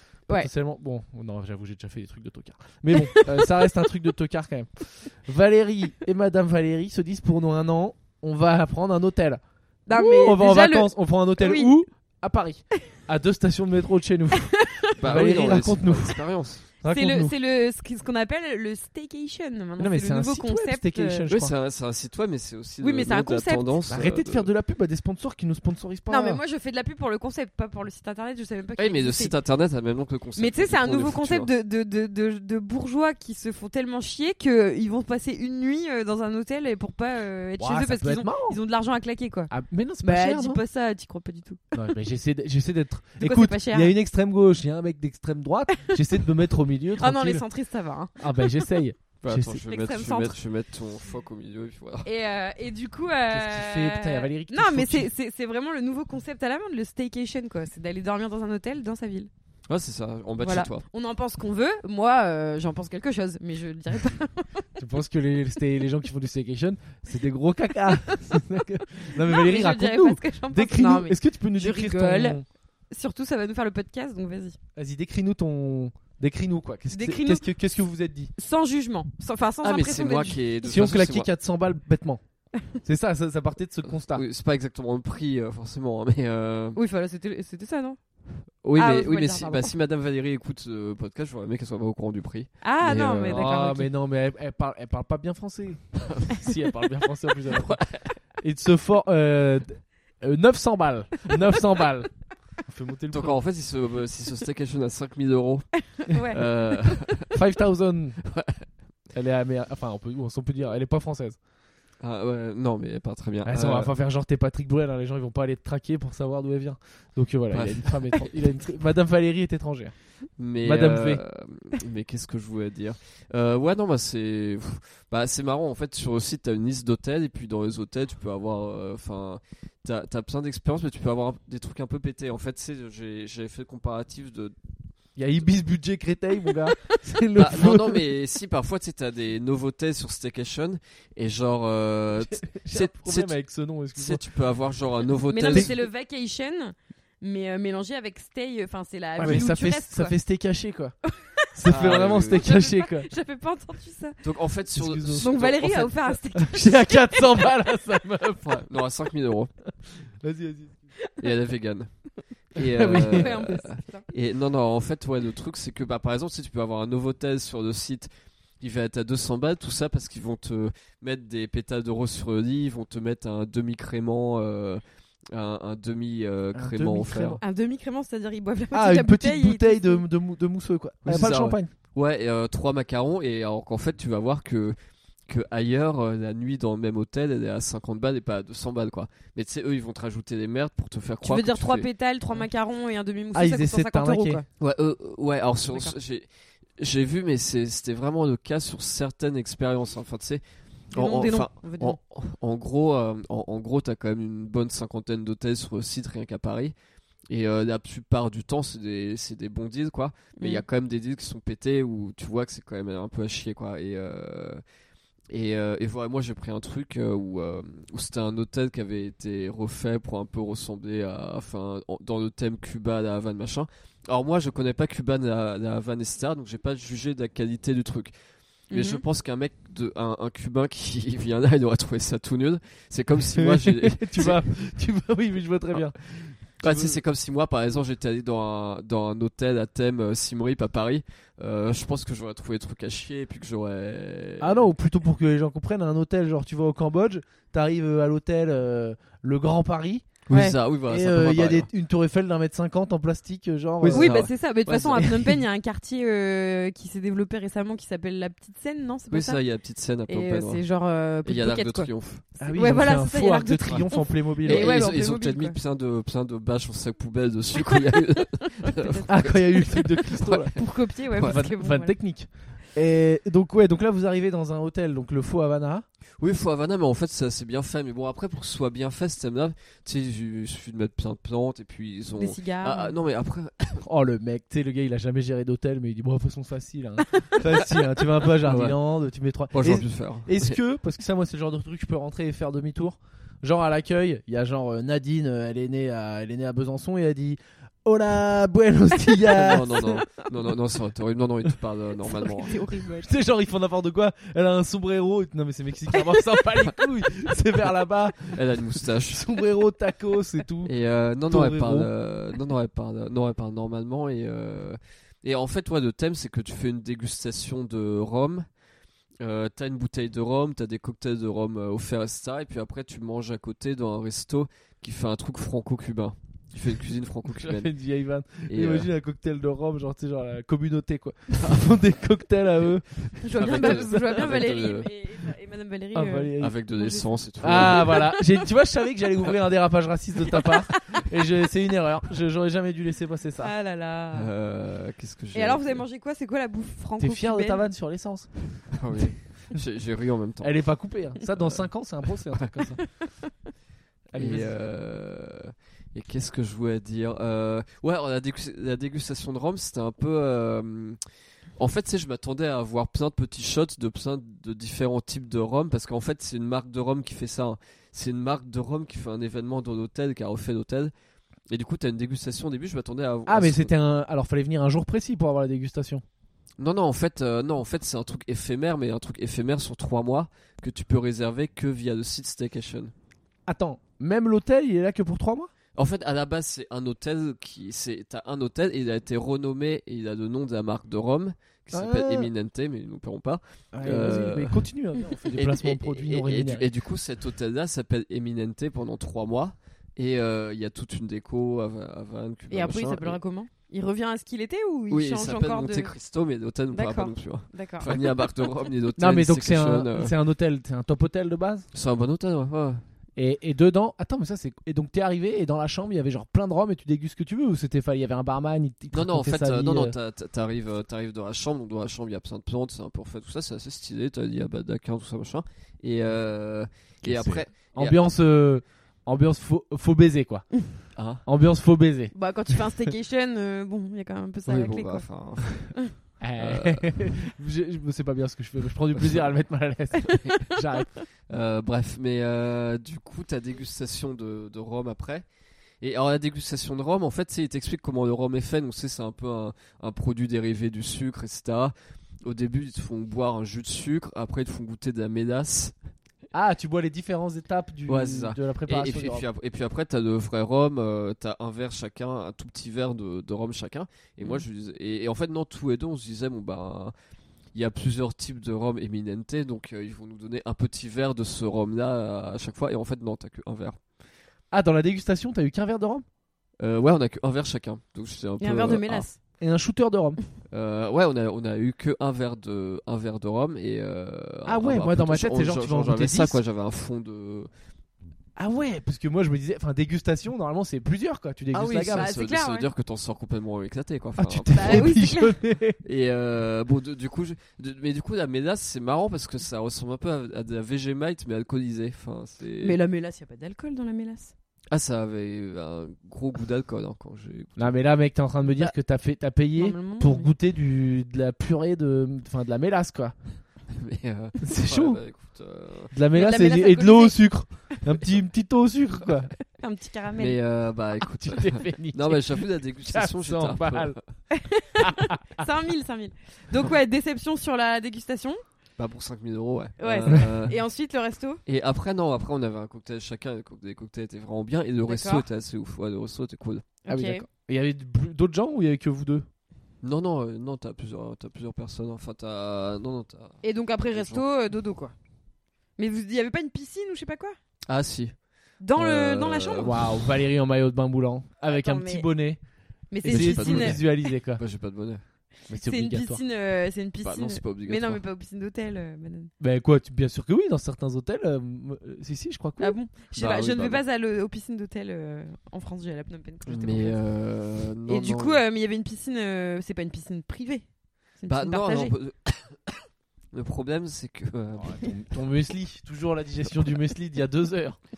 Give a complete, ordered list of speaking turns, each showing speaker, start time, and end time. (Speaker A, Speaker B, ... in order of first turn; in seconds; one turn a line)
Speaker A: 0.3-16.2
Speaker B: 3.0-3.3
Speaker B: 9.9-11.7
Speaker B: 14.5-14.9
Speaker C: 15.0-16.6
Speaker A: 16.8-17.3
Speaker B: 16.9-21.3
Speaker A: 19.8-21.5
Speaker C: 21.3-24.5
Speaker B: 22.8-23.7
Speaker A: 23.9-26.4
Speaker B: 26.1-29.3
Speaker C: 28.8-31.5
Speaker B: 30.4-39.5
Speaker A: 37.6-38.6
Speaker A: 39.5-40.6
Speaker B: 40.0-41.8
Speaker A: 41.7-47.4
Speaker B: 43.2-43.9
Speaker B: 45.7-46.0
Speaker B: 47.0-48.7
Speaker A: 48.2-49.6
Speaker C: 49.2-52.1
Speaker B: 49.5-50.4
Speaker B: 52.0-59.3
Speaker A: 53.3-55.1
Speaker C: 59.7-60.8
Speaker B: 60.4-64.7
Speaker A: 64.8-72.4
Speaker B: 69.1-72.4
Speaker B: 72.9-74.6
Speaker A: 74.8-78.3
Speaker B: 76.9-77.5
Speaker B: 78.4-80.4
Speaker C: 79.6-81.3
Speaker A: 80.6-82.2
Speaker A: 82.8-84.2
Speaker C: 84.1-86.8
Speaker B: 86.8-88.0
Speaker C: 88.6-93.4
Speaker B: 88.8-89.7
Speaker B: 92.6-93.9
Speaker A: 92.9-97.8
Speaker C: 96.1-96.4
Speaker C: 97.6-98.1
Speaker A: 98.4-102.1
Speaker A: 102.7-103.4
Speaker C: 103.1-107.3
Speaker B: 106.0-106.5
Speaker A: 107.3-108.2
Speaker C: 108.2-108.7
Speaker A: 109.1-111.4
Speaker C: 112.0-113.9
Speaker A: 113.4-119.9
Speaker C: 117.5-118.3
Speaker C: 120.4-134.5
Speaker A: 120.6-121.2
Speaker A: 135.2-138.1
Speaker C: 137.3-143.3
Speaker A: 142.2-144.2
Speaker C: 143.9-145.7
Speaker B: 145.3-150.1
Speaker A: 149.2-150.9
Speaker B: 151.1-154.2
Speaker A: 151.5-153.1
Speaker C: 151.7-152.5
Speaker C: 154.2-156.0
Speaker A: 154.7-155.3
Speaker B: 155.2-157.5
Speaker A: 156.3-158.6
Speaker C: 158.4-159.5
Speaker A: 159.9-160.8
Speaker C: 161.2-161.9
Speaker C: 162.5-168.1
Speaker A: 162.6-163.6
Speaker B: 162.9-164.1
Speaker C: 168.6-177.4
Speaker A: 176.5-177.4
Speaker B: 177.4-180.0
Speaker A: 178.7-181.7
Speaker C: 181.0-184.8
Speaker C: 185.3-191.9
Speaker B: 191.2-194.4
Speaker A: 193.3-194.4
Speaker C: 194.6-196.3
Speaker C: 196.8-200.4
Speaker C: 200.9-206.7
Speaker B: 200.9-202.0
Speaker C: 207.3-214.6
Speaker B: 210.4-210.6
Speaker C: 215.3-228.1
Speaker B: 228.7-229.0
Speaker C: 228.7-234.4
Speaker A: 233.3-237.0
Speaker C: 236.6-244.7
Speaker A: 244.4-250.2
Speaker C: 250.3-251.7
Speaker A: 250.9-254.2
Speaker C: 253.8-255.1
Speaker B: 253.9-259.4
Speaker A: 254.9-255.4
Speaker C: 259.1-260.6
Speaker B: 260.1-261.9
Speaker C: 261.2-262.2
Speaker A: 262.4-264.9
Speaker B: 262.4-265.6
Speaker C: 264.4-270.6
Speaker B: 267.5-271.9
Speaker A: 269.1-270.6
Speaker C: 271.1-271.4
Speaker A: 271.2-275.8
Speaker C: 276.2-283.8
Speaker B: 282.2-282.9
Speaker A: 283.8-299.9
Speaker C: 288.2-288.8
Speaker C: 289.5-290.6
Speaker C: 299.3-302.6
Speaker B: 299.7-300.3
Speaker B: 302.0-303.1
Speaker A: 303.0-310.7
Speaker C: 308.3-309.2
Speaker C: 310.6-318.5
Speaker A: 311.2-311.9
Speaker C: 319.2-327.7
Speaker A: 327.3-334.5
Speaker C: 328.5-328.9
Speaker B: 333.2-338.3
Speaker C: 333.4-334.9
Speaker A: 335.9-336.6
Speaker C: 336.4-338.1
Speaker A: 337.4-343.5
Speaker B: 340.3-341.0
Speaker B: 343.4-344.3
Speaker C: 344.1-345.8
Speaker B: 345.3-347.6
Speaker A: 347.0-348.3
Speaker C: 348.7-350.5
Speaker A: 350.4-352.8
Speaker A: 354.1-354.5
Speaker C: 354.1-361.0
Speaker C: 361.6-370.9
Speaker C: 371.5-373.7
Speaker A: 373.3-376.0
Speaker C: 376.6-382.9
Speaker A: 383.5-385.5
Speaker C: 385.8-394.7
Speaker A: 391.7-392.3
Speaker A: 393.7-396.7
Speaker C: 395.3-403.2
Speaker B: 402.5-405.9
Speaker C: 404.9-410.1
Speaker B: 406.7-408.3
Speaker A: 409.0-411.7
Speaker C: 411.7-412.8
Speaker A: 413.2-419.9
Speaker C: 418.9-428.0
Speaker A: 427.0-430.5
Speaker C: 430.9-431.2
Speaker A: 431.2-432.1
Speaker B: 432.1-435.1
Speaker C: 434.4-435.8
Speaker A: 436.2-440.9
Speaker C: 436.4-437.1
Speaker B: 440.0-440.8
Speaker C: 441.3-445.2
Speaker C: 445.8-455.7
Speaker A: 456.3-459.2
Speaker C: 457.9-466.9
Speaker C: 467.5-473.8
Speaker A: 474.5-476.0
Speaker C: 476.6-479.1
Speaker B: 478.4-479.1
Speaker A: 479.4-480.2
Speaker C: 480.5-487.5
Speaker A: 484.4-486.4
Speaker A: 488.4-492.1
Speaker B: 491.5-492.7
Speaker C: 491.9-495.0
Speaker A: 494.2-495.8
Speaker B: 494.5-495.4
Speaker C: 495.8-502.8
Speaker B: 502.6-504.3
Speaker C: 504.7-507.7
Speaker A: 507.6-513.1
Speaker B: 509.5-510.3
Speaker C: 513.7-515.9
Speaker A: 514.4-515.0
Speaker A: 515.9-519.3
Speaker B: 516.1-517.2
Speaker B: 519.5-520.4
Speaker C: 520.2-524.0
Speaker A: 521.2-524.0
Speaker B: 524.3-528.4
Speaker A: 524.8-525.5
Speaker C: 528.8-530.6
Speaker B: 529.8-531.4
Speaker C: 531.5-536.7
Speaker B: 534.9-535.2
Speaker B: 536.8-537.2
Speaker A: 536.9-539.2
Speaker C: 539.8-544.2
Speaker B: 543.4-544.9
Speaker B: 545.8-547.4
Speaker C: 547.7-548.1
Speaker B: 548.6-549.7
Speaker C: 548.7-550.0
Speaker A: 549.6-552.4
Speaker B: 551.5-552.1
Speaker B: 552.9-553.9
Speaker A: 553.0-554.4
Speaker C: 553.0-553.8
Speaker C: 554.4-555.0
Speaker A: 555.5-556.2
Speaker B: 555.6-559.3
Speaker C: 557.0-558.0
Speaker A: 559.4-562.8
Speaker B: 562.6-567.0
Speaker C: 563.1-563.8
Speaker C: 566.5-568.4
Speaker B: 567.9-570.6
Speaker B: 571.2-571.9
Speaker C: 571.3-574.9
Speaker A: 574.6-577.8